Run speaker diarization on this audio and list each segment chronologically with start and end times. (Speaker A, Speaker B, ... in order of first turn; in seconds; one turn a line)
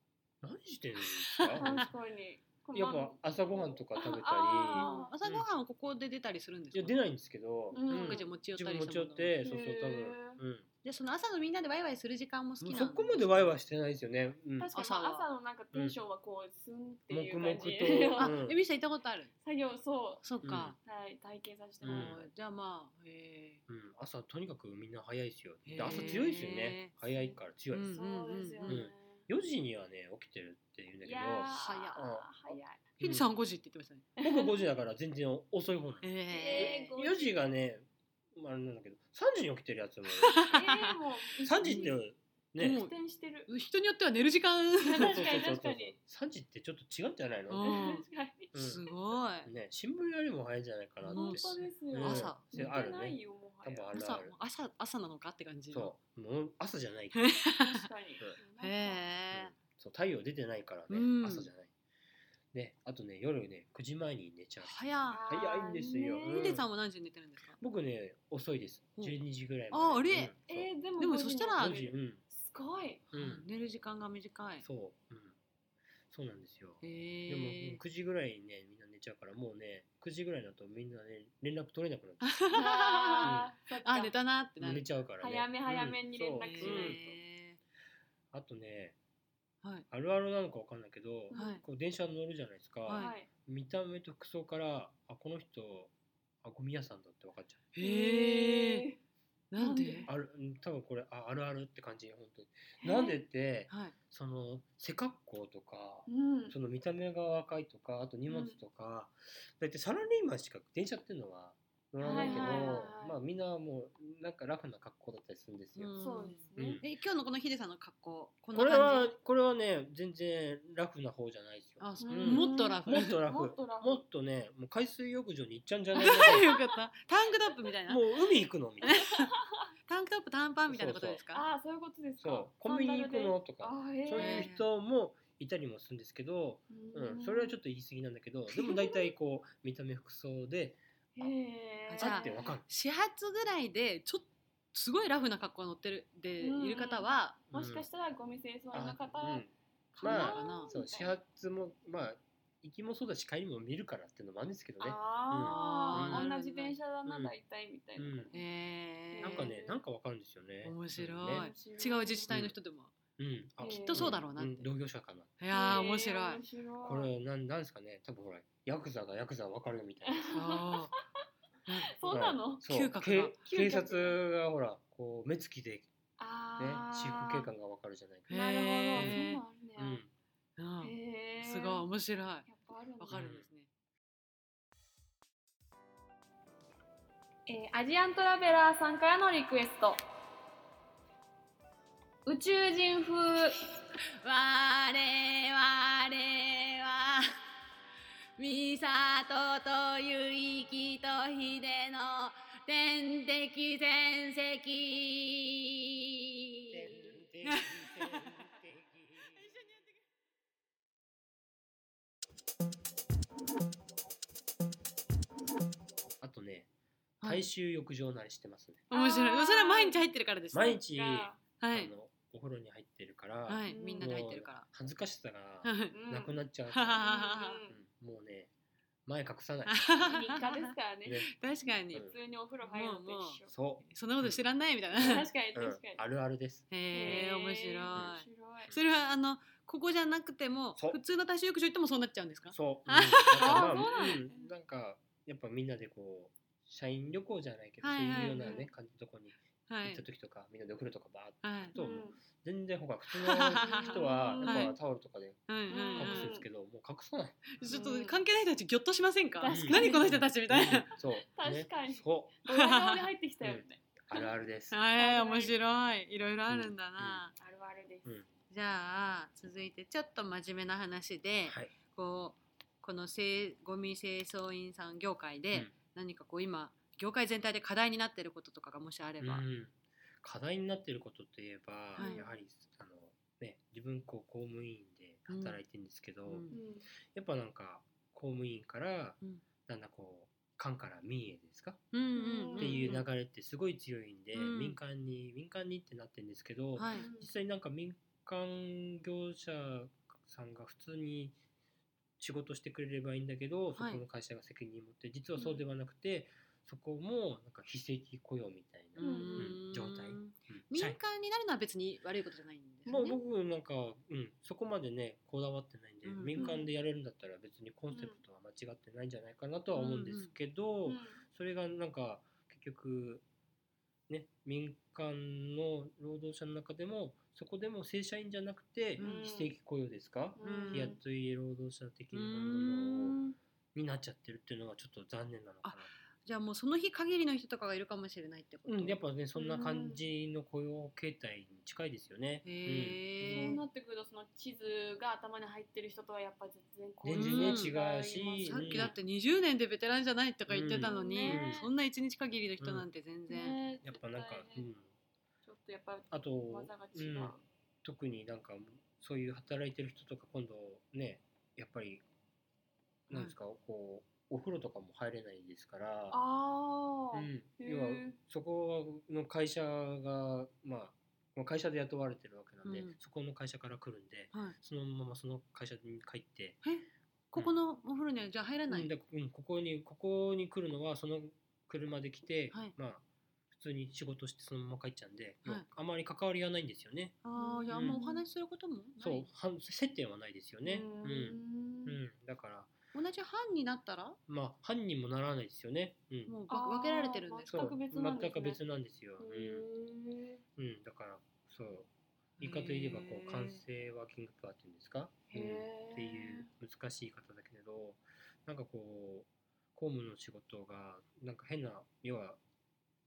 Speaker A: 0.4-1.9
Speaker B: 1.1-1.9
Speaker C: 1.6-5.1
Speaker A: 2.7-5.5
Speaker B: 4.7-7.0
Speaker A: 6.7-10.7
Speaker C: 7.7-8.3
Speaker B: 7.9-9.4
Speaker C: 9.4-10.4
Speaker B: 10.8-13.6
Speaker A: 12.6-14.7
Speaker C: 14.6-18.4
Speaker B: 14.7-15.3
Speaker A: 17.1-18.6
Speaker B: 18.1-19.3
Speaker C: 19.4-22.2
Speaker B: 20.2-20.7
Speaker A: 20.4-20.8
Speaker B: 21.8-23.6
Speaker A: 21.8-22.2
Speaker A: 23.7-28.0
Speaker B: 25.6-26.9
Speaker C: 25.8-26.2
Speaker C: 27.0-27.4
Speaker B: 27.7-28.9
Speaker C: 27.9-29.2
Speaker A: 28.6-33.3
Speaker C: 31.0-32.8
Speaker B: 31.5-32.0
Speaker B: 33.0-34.1
Speaker C: 34.2-34.5
Speaker A: 34.2-40.4
Speaker B: 36.0-36.9
Speaker C: 36.3-37.4
Speaker B: 40.2-40.9
Speaker C: 40.4-42.0
Speaker A: 41.4-42.8
Speaker B: 41.6-41.9
Speaker B: 42.6-42.9
Speaker C: 42.6-43.5
Speaker B: 43.5-45.3
Speaker C: 44.8-46.0
Speaker A: 45.0-47.7
Speaker B: 47.5-49.5
Speaker C: 47.6-49.0
Speaker A: 48.5-48.8
Speaker A: 49.4-54.3
Speaker B: 51.0-52.8
Speaker C: 51.1-54.0
Speaker B: 53.9-55.9
Speaker A: 55.7-57.3
Speaker B: 57.1-57.9
Speaker C: 57.6-59.1
Speaker B: 58.6-59.5
Speaker A: 59.3-61.7
Speaker B: 60.9-61.5
Speaker A: 62.5-64.8
Speaker B: 64.6-65.2
Speaker C: 65.1-66.5
Speaker A: 65.3-66.7
Speaker B: 66.3-67.6
Speaker A: 67.6-70.7
Speaker B: 69.7-70.3
Speaker C: 70.5-73.0
Speaker B: 71.0-71.8
Speaker A: 71.6-72.2
Speaker B: 73.1-74.7
Speaker A: 73.1-73.4
Speaker A: 74.6-75.3
Speaker A: 76.1-82.5
Speaker B: 76.8-77.8
Speaker B: 82.2-84.8
Speaker C: 82.5-84.2
Speaker A: 83.2-83.5
Speaker A: 84.6-87.0
Speaker C: 85.2-87.2
Speaker B: 86.4-87.6
Speaker A: 88.3-89.0
Speaker A: 89.9-95.9
Speaker C: 91.3-91.6
Speaker B: 91.3-91.6
Speaker B: 92.8-93.1
Speaker C: 92.9-93.3
Speaker A: 96.4-97.7
Speaker B: 97.7-98.8
Speaker C: 97.8-99.0
Speaker B: 99.5-100.1
Speaker C: 99.6-100.1
Speaker A: 100.1-116.8
Speaker C: 102.8-103.2
Speaker B: 103.7-103.9
Speaker C: 106.1-106.5
Speaker C: 108.3-108.6
Speaker B: 112.0-112.8
Speaker C: 112.0-113.2
Speaker B: 115.8-119.1
Speaker C: 116.0-116.8
Speaker A: 118.5-126.5
Speaker B: 121.8-123.2
Speaker C: 122.0-124.0
Speaker B: 126.0-128.0
Speaker C: 126.0-126.8
Speaker A: 127.9-129.1
Speaker B: 128.8-129.3
Speaker C: 128.8-129.3
Speaker B: 129.9-131.4
Speaker A: 130.7-131.2
Speaker C: 131.3-134.5
Speaker A: 132.2-140.8
Speaker B: 134.1-134.6
Speaker C: 136.7-137.5
Speaker C: 138.5-139.0
Speaker C: 141.2-142.5
Speaker B: 141.9-147.4
Speaker A: 142.0-142.6
Speaker C: 146.4-151.2
Speaker A: 147.5-147.8
Speaker A: 148.7-149.5
Speaker B: 150.0-150.7
Speaker A: 150.0-156.3
Speaker C: 154.8-158.4
Speaker B: 155.4-156.8
Speaker A: 157.1-157.3
Speaker A: 158.0-158.3
Speaker B: 158.3-159.5
Speaker C: 159.1-159.8
Speaker A: 159.2-161.5
Speaker B: 160.6-162.9
Speaker C: 161.3-162.4
Speaker A: 162.3-162.5
Speaker A: 163.2-165.8
Speaker C: 163.6-164.2
Speaker B: 163.8-164.7
Speaker B: 165.4-166.4
Speaker C: 165.5-167.1
Speaker A: 166.8-170.4
Speaker C: 170.0-170.8
Speaker B: 170.3-170.9
Speaker B: 171.7-172.0
Speaker C: 171.8-172.6
Speaker A: 172.1-175.9
Speaker B: 172.5-173.4
Speaker C: 173.4-174.2
Speaker C: 176.2-177.5
Speaker A: 176.6-178.3
Speaker B: 178.3-179.4
Speaker C: 178.3-180.0
Speaker A: 178.9-179.2
Speaker A: 179.8-180.1
Speaker B: 180.6-182.5
Speaker C: 180.8-181.9
Speaker C: 182.4-183.2
Speaker B: 183.0-183.7
Speaker A: 183.1-183.5
Speaker C: 187.5-190.0
Speaker C: 192.2-193.6
Speaker B: 194.2-197.2
Speaker B: 198.4-208.5
Speaker A: 206.7-209.4
Speaker B: 209.3-210.0
Speaker A: 216.2-216.7
Speaker B: 217.2-217.5
Speaker A: 217.2-218.9
Speaker B: 218.9-220.8
Speaker C: 218.9-220.0
Speaker A: 220.5-227.0
Speaker C: 220.9-221.4
Speaker B: 221.6-221.9
Speaker B: 223.5-224.7
Speaker C: 223.7-224.1
Speaker B: 225.6-226.0
Speaker C: 225.9-226.4
Speaker B: 226.7-227.6
Speaker C: 226.9-227.8
Speaker A: 227.7-228.5
Speaker A: 229.1-230.2
Speaker B: 229.7-230.7
Speaker C: 230.0-231.3
Speaker B: 231.3-232.0
Speaker C: 231.9-233.5
Speaker B: 232.6-235.3
Speaker A: 233.5-234.4
Speaker A: 234.9-237.2
Speaker C: 235.0-236.0
Speaker B: 236.7-244.1
Speaker C: 236.9-238.7
Speaker A: 237.9-238.8
Speaker A: 242.5-257.9
Speaker C: 243.4-244.5
Speaker B: 247.8-248.6
Speaker C: 248.4-248.7
Speaker B: 249.7-250.0
Speaker B: 251.4-251.8
Speaker C: 251.7-252.2
Speaker B: 253.1-254.7
Speaker C: 253.6-254.7
Speaker B: 255.5-256.3
Speaker C: 255.7-256.4
Speaker B: 257.6-260.9
Speaker C: 257.6-258.2
Speaker C: 259.4-260.3
Speaker A: 259.5-262.4
Speaker C: 261.3-264.3
Speaker B: 262.5-263.1
Speaker A: 263.4-264.8
Speaker B: 264.7-267.3
Speaker C: 264.9-265.6
Speaker A: 266.5-267.2
Speaker C: 267.4-268.2
Speaker B: 268.5-279.4
Speaker A: 271.4-271.7
Speaker A: 279.2-286.4
Speaker B: 282.0-282.2
Speaker C: 282.0-282.3
Speaker B: 285.3-285.6
Speaker B: 286.3-286.6
Speaker C: 286.5-286.9
Speaker A: 287.1-291.8
Speaker B: 291.9-293.0
Speaker C: 292.1-293.0
Speaker A: 292.6-301.4
Speaker B: 294.3-294.8
Speaker B: 296.8-297.1
Speaker C: 296.9-297.3
Speaker A: 302.2-311.0
Speaker B: 303.8-304.0
Speaker B: 308.9-313.2
Speaker C: 309.0-309.6
Speaker A: 312.9-323.2
Speaker B: 316.0-316.6
Speaker C: 316.4-316.7
Speaker C: 317.9-318.2
Speaker B: 319.7-320.3
Speaker C: 320.9-321.2
Speaker A: 324.1-333.2
Speaker B: 329.0-329.3
Speaker C: 329.0-329.5
Speaker C: 330.4-331.0
Speaker B: 330.4-330.9
Speaker B: 332.1-333.3
Speaker A: 333.7-335.9
Speaker B: 335.6-339.0
Speaker A: 338.7-343.6
Speaker C: 339.4-340.0
Speaker B: 342.4-343.6
Speaker C: 343.3-348.9
Speaker A: 347.0-348.9
Speaker B: 347.1-347.7
Speaker B: 348.4-353.6
Speaker A: 350.5-351.6
Speaker C: 350.8-351.7
Speaker A: 352.6-352.9
Speaker C: 353.3-354.6
Speaker A: 353.8-354.9
Speaker C: 355.4-357.4
Speaker A: 356.1-362.0
Speaker A: 363.1-366.2
Speaker C: 366.1-368.2
Speaker A: 367.1-376.6
Speaker B: 372.6-372.9
Speaker B: 376.6-378.9
Speaker A: 378.7-388.0
Speaker B: 387.2-389.3
Speaker C: 387.3-388.2
Speaker A: 389.0-392.7
Speaker C: 390.6-392.0
Speaker B: 392.9-394.2
Speaker A: 394.3-396.4
Speaker B: 396.3-397.7
Speaker C: 396.5-398.6
Speaker A: 397.5-399.6
Speaker C: 399.2-400.4
Speaker A: 400.6-401.9
Speaker B: 402.4-403.6
Speaker A: 402.4-412.4
Speaker C: 405.3-406.5